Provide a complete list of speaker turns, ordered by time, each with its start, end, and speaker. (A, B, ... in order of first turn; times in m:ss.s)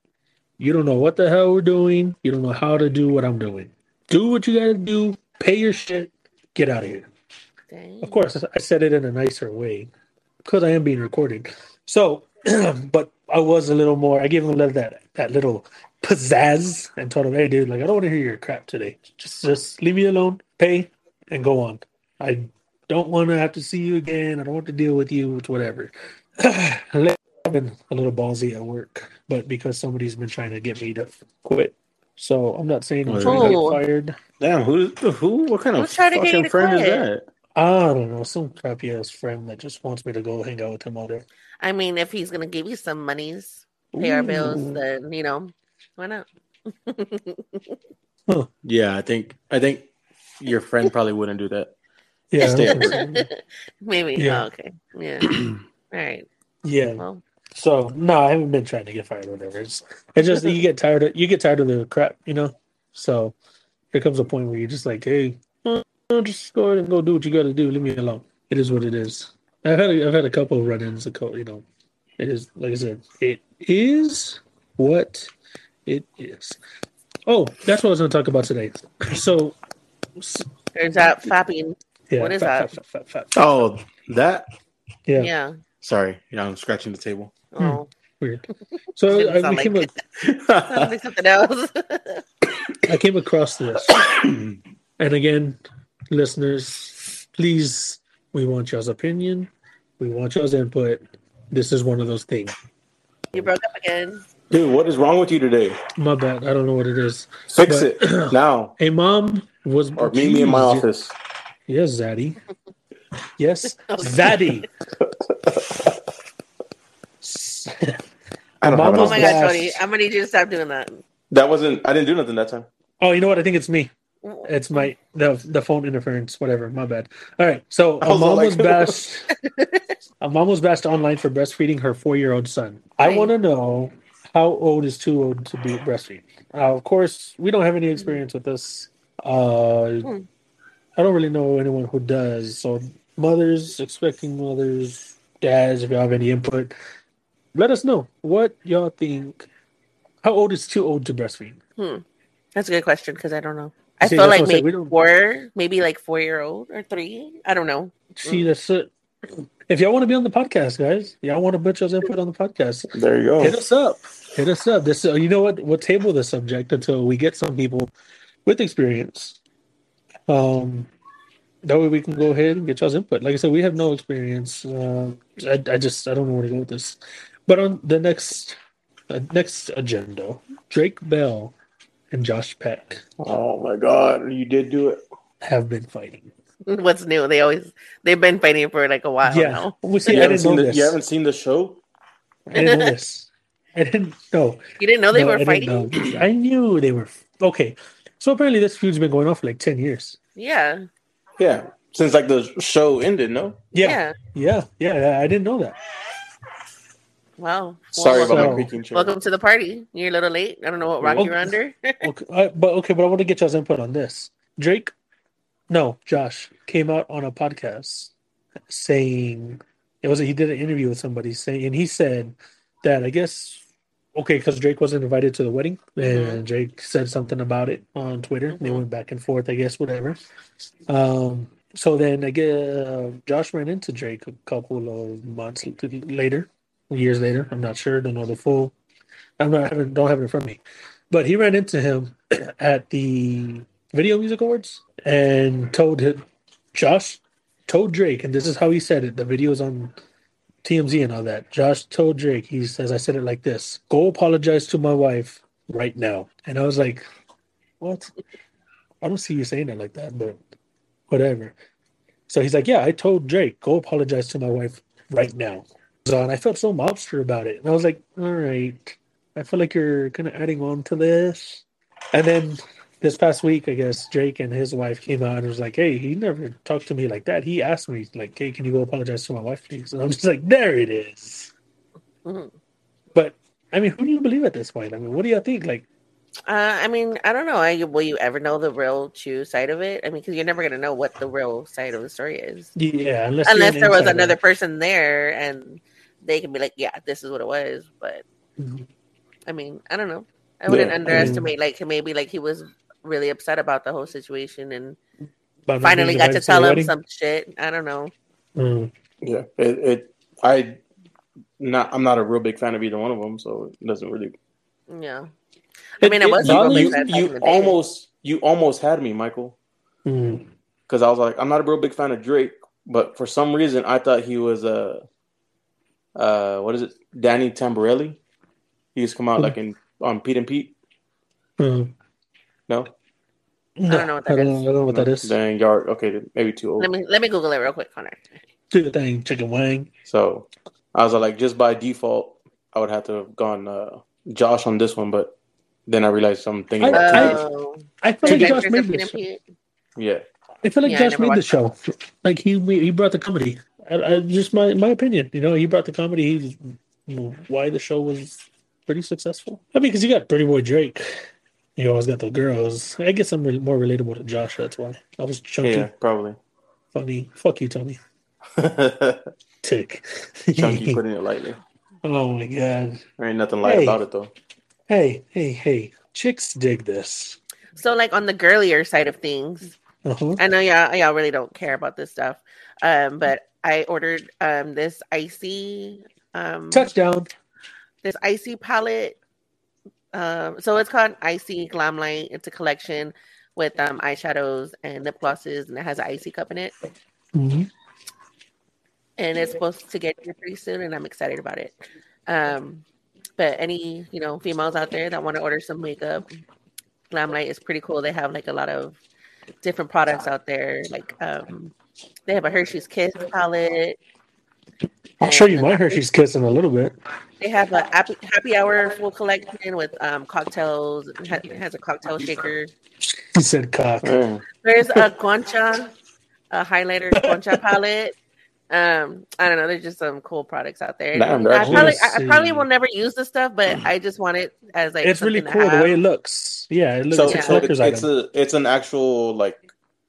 0:00.6-0:07.1 A
0:07.7-0:08.2 B
0:08.0-0:09.9 A
0:10.4-0:34.2 A
0:33.0-0:33.6 C
0:33.2-0:33.8 B
0:34.4-0:37.3 C
0:35.8-0:37.1 B
0:37.6-0:41.2 A
0:41.6-0:47.8 B
0:44.0-0:44.8 A
0:48.6-0:49.9 C
0:50.4-0:51.7 C
0:52.3-0:53.3 A
0:52.4-0:53.0 C
0:52.4-0:55.3 B
0:54.2-0:54.4 A
0:55.9-0:56.3 B
0:56.6-0:57.0 A
0:57.0-0:57.2 B
0:57.6-1:03.3 A
1:03.9-1:11.6 A
1:12.2-1:15.3 A
1:15.8-1:16.6 A
1:17.3-1:19.6 A
1:20.2-1:20.5 A
1:20.7-1:22.8 B
1:22.1-1:23.4 A
1:23.3-1:24.5 C
1:25.2-1:25.6 B
1:25.8-1:27.3 C
1:27.5-1:27.9 B
1:27.6-1:29.9 A
1:29.1-1:30.0 B
1:30.2-1:30.9 C
1:30.6-1:32.2 B
1:32.8-1:33.9 A
1:34.0-1:34.5 C
1:35.0-1:35.6 A
1:36.1-1:42.6 A
1:43.3-1:44.2 B
1:44.5-1:45.8 C
1:46.0-1:50.9 A
1:47.5-1:48.7 C
1:50.0-1:51.1 C
1:51.7-1:52.4 A
1:53.4-1:54.7 A
1:53.8-1:54.6 B
1:55.0-1:56.0 C
1:57.2-1:58.0 A
1:58.6-1:59.4 C
1:58.6-1:59.8 A
1:58.9-2:01.0 B
2:01.3-2:02.7 C
2:03.0-2:03.9 A
2:04.2-2:04.8 B
2:04.4-2:09.3 A
2:08.0-2:09.0 C
2:09.4-2:09.9 B
2:10.2-2:20.1 A
2:13.0-2:13.3 B
2:21.0-2:26.7 A
2:27.5-2:29.5 A
2:30.2-2:31.6 A
2:31.8-2:32.0 B
2:32.5-2:38.4 B
2:34.0-2:34.9 A
2:38.2-2:38.9 A
2:39.7-2:42.9 A
2:42.9-2:43.6 C
2:43.4-2:47.9 A
2:48.4-2:49.4 A
2:50.3-2:50.9 A
2:51.6-2:58.6 A
2:59.1-3:01.5 A
3:02.1-3:03.0 A
3:03.2-3:05.0 C
3:05.4-3:06.3 A
3:06.7-3:10.2 B
3:09.2-3:11.0 A
3:10.0-3:11.8 C
3:12.5-3:20.2 A
3:12.5-3:12.9 B
3:14.8-3:16.0 B
3:20.4-3:20.9 B
3:21.4-3:23.6 C
3:23.7-3:25.8 A
3:23.8-3:24.1 B
3:27.4-3:32.1 B
3:27.9-3:29.1 C
3:28.2-3:28.7 A
3:31.0-3:31.3 C
3:31.2-3:34.9 A
3:35.7-3:38.1 A
3:38.7-3:50.2 A
3:46.0-3:46.4 B
3:48.5-3:48.8 B
3:50.9-3:58.7 A
3:59.4-4:09.9 A
4:10.6-4:17.1 A
4:17.8-4:18.1 A
4:19.0-4:20.4 A
4:21.1-4:21.5 A
4:22.3-4:41.5 A
4:42.2-4:42.5 B
4:43.1-4:45.8 A
4:46.5-4:52.7 B
4:52.8-4:54.4 A
4:53.4-4:58.2 B
4:58.6-4:58.9 A
4:59.5-5:05.0 B
5:00.7-5:01.4 C
5:01.1-5:01.5 A
5:05.7-5:06.9 A
5:05.8-5:08.1 B
5:08.6-5:08.9 A
5:09.2-5:10.8 C
5:11.6-5:14.3 C
5:14.9-5:15.3 B
5:16.0-5:17.8 B
5:16.0-5:17.1 A
5:16.4-5:19.6 C
5:20.0-5:20.5 A
5:20.9-5:25.0 C
5:26.2-5:28.2 C
5:28.9-5:30.7 C
5:31.6-5:31.9 A
5:33.8-5:35.3 A
5:33.9-5:34.6 B
5:34.9-5:36.9 C
5:36.8-5:38.3 B
5:38.7-5:39.9 A
5:40.0-5:45.3 C
5:45.8-5:47.4 C
5:46.8-5:47.4 A
5:46.9-5:49.4 B
5:48.0-5:49.2 A
5:48.3-5:48.6 C
5:50.0-5:50.2 C
5:50.6-6:05.9 A
5:50.8-5:51.5 B
6:05.6-6:06.4 C
6:06.9-6:08.0 A
6:08.6-6:09.3 C
6:09.6-6:11.0 A
6:10.6-6:11.6 C
6:12.0-6:13.0 A
6:13.2-6:14.3 C
6:13.6-6:14.0 A
6:14.9-6:17.4 A
6:17.8-6:19.7 B
6:20.0-6:20.4 A
6:20.4-6:26.9 B
6:26.7-6:27.3 A
6:28.0-6:29.2 B
6:30.1-6:36.7 B
6:37.3-6:37.7 A
6:39.2-6:41.8 B
6:42.3-6:42.8 B
6:43.4-6:46.3 B
6:47.1-6:49.0 B
6:49.6-6:51.7 B
6:52.3-6:54.0 B
6:55.2-6:56.9 A
6:55.2-6:56.0 B
6:57.4-7:02.7 B
7:03.0-7:04.2 A
7:04.0-7:04.4 C
7:04.6-7:05.9 B
7:06.5-7:08.2 B
7:07.2-7:07.7 A
7:08.7-7:16.0 B
7:11.1-7:12.0 C
7:11.6-7:12.6 A
7:15.0-7:18.1 A
7:17.1-7:19.7 C
7:17.3-7:17.7 B